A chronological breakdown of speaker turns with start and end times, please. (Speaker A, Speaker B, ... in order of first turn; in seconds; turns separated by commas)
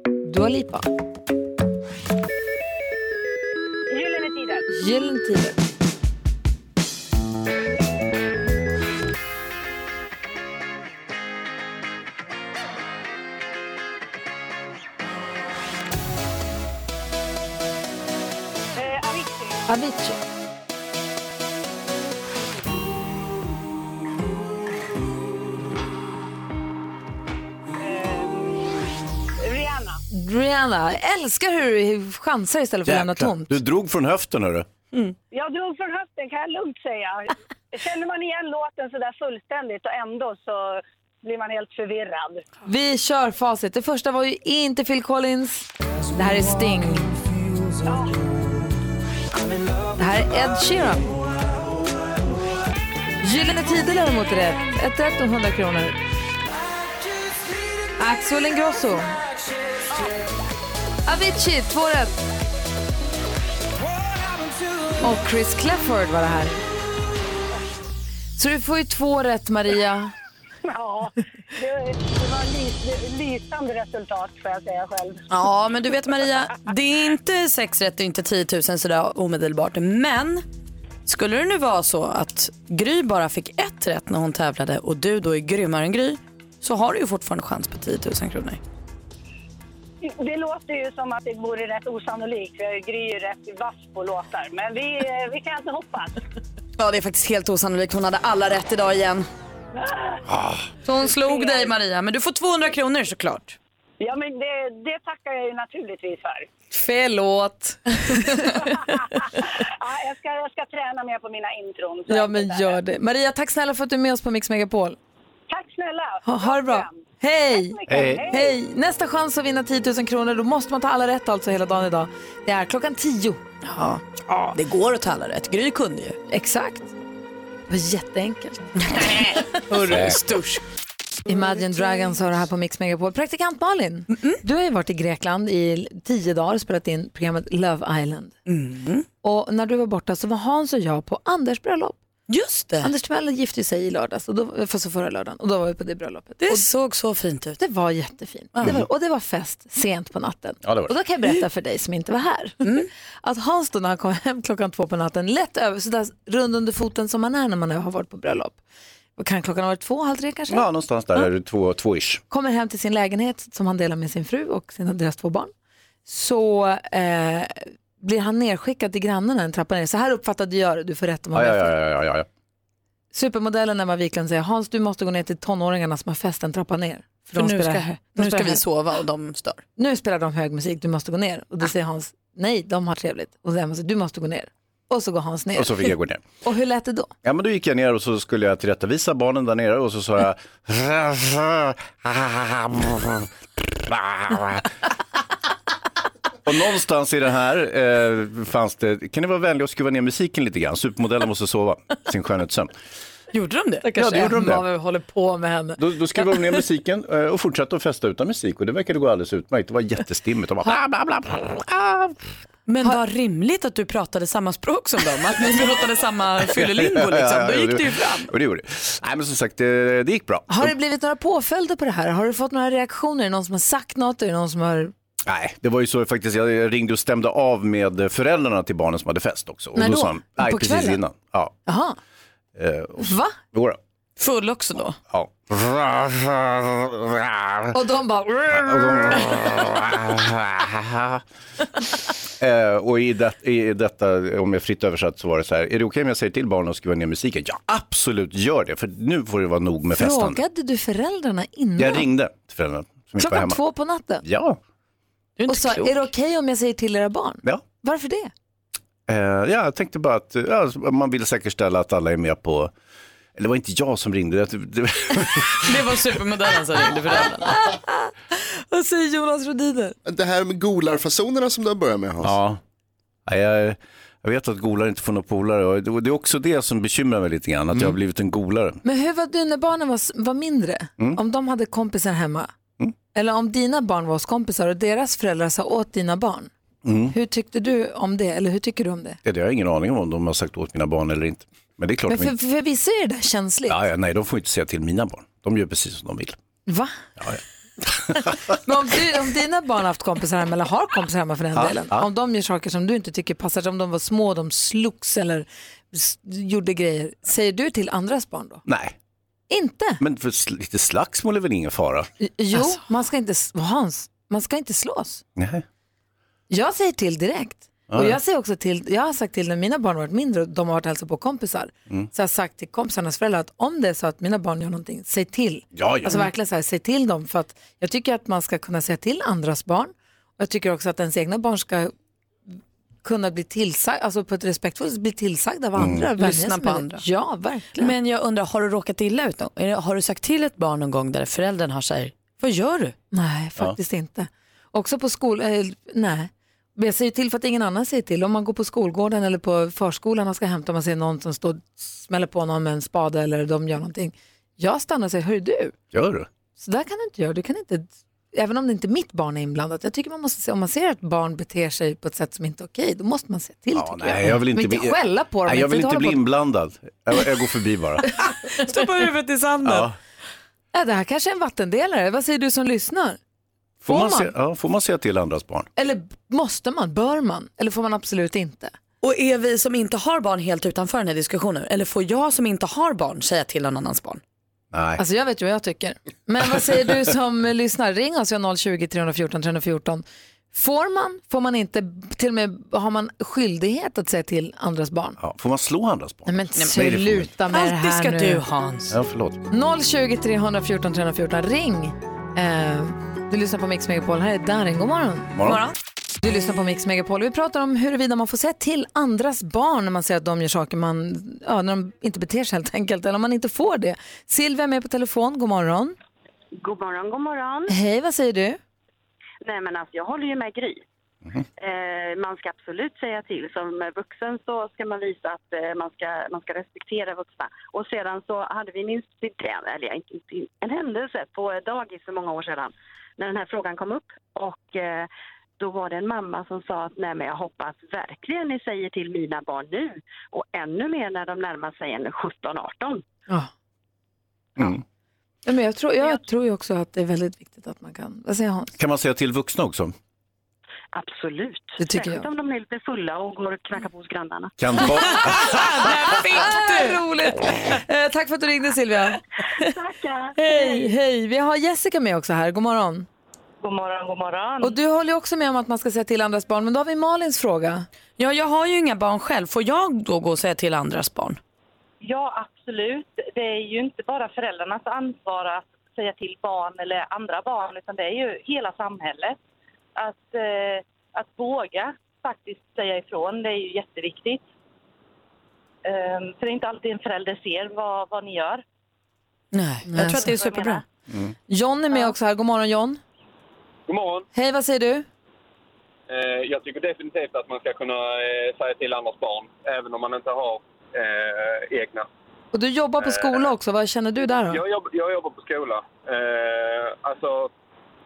Speaker A: 0.2-0.9, Speaker B: 3.9-4.7, Speaker A: 4.7-5.6, Speaker B: 18.8-19.6, Speaker A: 19.7-20.2, Speaker B: 27.8-28.7, Speaker B: 29.4-30.0, Speaker A: 30.1-33.5, Speaker C: 32.9-34.7, Speaker B: 35.3-42.4, Speaker A: 42.6-47.2, Speaker B: 47.8-48.2, Speaker A: 50.0-51.1, Speaker A: 53.2-56.0, Speaker A: 58.0-59.2, Speaker A: 61.1-62.2, Speaker A: 65.0-66.6, Speaker A: 68.4-70.1, Speaker B: 70.7-75.2, Speaker D: 75.3-80.4, Speaker D: 81.1-88.6, Speaker B: 90.0-96.2, Speaker D: 96.8-99.3, Speaker B: 99.8-100.2, Speaker D: 100.8-103.6, Speaker B: 101.0-101.7, Speaker B: 104.0-106.5, Speaker A: 106.7-109.5, Speaker B: 108.4-112.8, Speaker A: 112.1-115.0, Speaker B: 115.5-118.6, Speaker A: 116.2-123.5, Speaker C: 117.9-118.3, Speaker D: 123.6-126.2, Speaker A: 126.3-126.9, Speaker A: 127.7-129.1, Speaker D: 128.8-130.6, Speaker C: 129.9-130.2, Speaker A: 131.3-138.3, Speaker D: 134.1-134.4, Speaker D: 138.5-139.1, Speaker A: 139.2-142.0, Speaker D: 142.3-142.9, Speaker A: 142.8-146.7, Speaker D: 146.4-147.6, Speaker A: 147.6-152.6, Speaker C: 150.6-150.9, Speaker D: 152.6-152.9, Speaker A: 153.2-158.6, Speaker A: 159.2-160.7, Speaker C: 160.5-162.2, Speaker A: 162.3-165.5, Speaker A: 166.1-171.7, Speaker C: 171.3-172.3, Speaker A: 173.1-178.6, Speaker D: 177.3-179.6, Speaker A: 179.8-187.1, Speaker C: 185.6-186.2, Speaker C: 187.2-194.7, Speaker C: 196.5-202.7, Speaker D: 203.3-203.9, Speaker A: 203.8-206.3, Speaker C: 204.0-204.7, Speaker C: 205.8-212.2, Speaker D: 212.7-218.3, Speaker C: 216.6-220.7, Speaker A: 220.5-224.9, Speaker C: 225.3-231.6, Speaker A: 229.8-231.0, Speaker A: 231.7-232.0, Speaker C: 232.6-233.8, Speaker A: 233.0-233.4, Speaker D: 234.2-235.0, Speaker C: 235.1-237.7, Speaker A: 237.7-239.5, Speaker C: 238.6-241.2, Speaker C: 242.4-250.4, Speaker A: 249.9-252.1, Speaker C: 251.8-253.6, Speaker A: 253.2-254.2, Speaker C: 254.2-254.6, Speaker D: 255.4-256.0, Speaker A: 255.5-258.3, Speaker C: 257.4-257.7, Speaker C: 259.1-262.7, Speaker C: 263.4-265.7, Speaker D: 265.6-267.5, Speaker A: 267.4-270.0, Speaker E: 270.1-272.4, Speaker C: 272.2-272.6, Speaker C: 273.3-278.8, Speaker A: 278.8-282.5, Speaker A: 283.1-286.5, Speaker C: 286.9-287.1, Speaker A: 287.1-289.2, Speaker C: 289.2-292.3, Speaker A: 292.1-293.8, Speaker C: 293.7-296.4, Speaker A: 296.7-297.1, Speaker C: 297.2-298.6, Speaker A: 298.6-308.6, Speaker C: 301.5-302.1, Speaker C: 308.6-308.9, Speaker A: 309.5-310.0, Speaker C: 310.0-312.1, Speaker A: 312.2-315.2, Speaker C: 315.4-315.6, Speaker A: 316.5-331.9, Speaker C: 317.9-318.2, Speaker C: 325.8-326.3, Speaker A: 333.0-337.9, Speaker C: 335.8-336.1, Speaker D: 336.2-337.0, Speaker D: 337.8-342.9, Speaker A: 343.1-355.8, Speaker C: 355.9-356.3, Speaker A: 356.6-366.2, Speaker C: 363.7-368.1, Speaker D: 368.6-369.9, Speaker C: 369.6-370.0, Speaker A: 370.7-373.2, Speaker C: 373.8-375.7, Speaker A: 373.9-374.3, Speaker A: 375.8-378.7, Speaker D: 379.0-384.2, Speaker C: 384.7-385.0, Speaker A: 385.0-395.2, Speaker C: 395.2-397.3, Speaker A: 396.3-398.4, Speaker D: 397.5-398.9, Speaker C: 398.9-399.4, Speaker A: 399.5-405.5, Speaker C: 405.4-405.6, Speaker A: 406.2-416.0, Speaker F: 416.6-417.7, Speaker A: 417.7-418.6, Speaker F: 419.4-420.8, Speaker F: 421.6-435.1, Speaker F: 435.6-443.0, Speaker C: 444.6-444.8, Speaker A: 445.5-448.7, Speaker C: 448.8-449.9, Speaker F: 450.9-454.5, Speaker A: 451.8-452.3, Speaker C: 454.6-455.7, Speaker D: 455.1-457.0, Speaker A: 456.3-459.2, Speaker F: 459.6-460.8, Speaker A: 460.4-463.1, Speaker G: 463.6-464.8, Speaker A: 464.6-467.9, Speaker D: 468.2-471.4, Speaker G: 472.0-479.4, Speaker G: 480.0-484.4, Speaker G: 485.9-488.6, Speaker D: 489.5-490.8, Speaker A: 489.9-490.4, Speaker G: 490.3-490.8, Speaker A: 491.5-493.0, Speaker H: 493.9-494.3, Speaker A: 494.3-495.1, Speaker H: 496.1-502.1, Speaker A: 502.5-504.6, Speaker H: 503.0-503.5, Speaker H: 504.5-507.5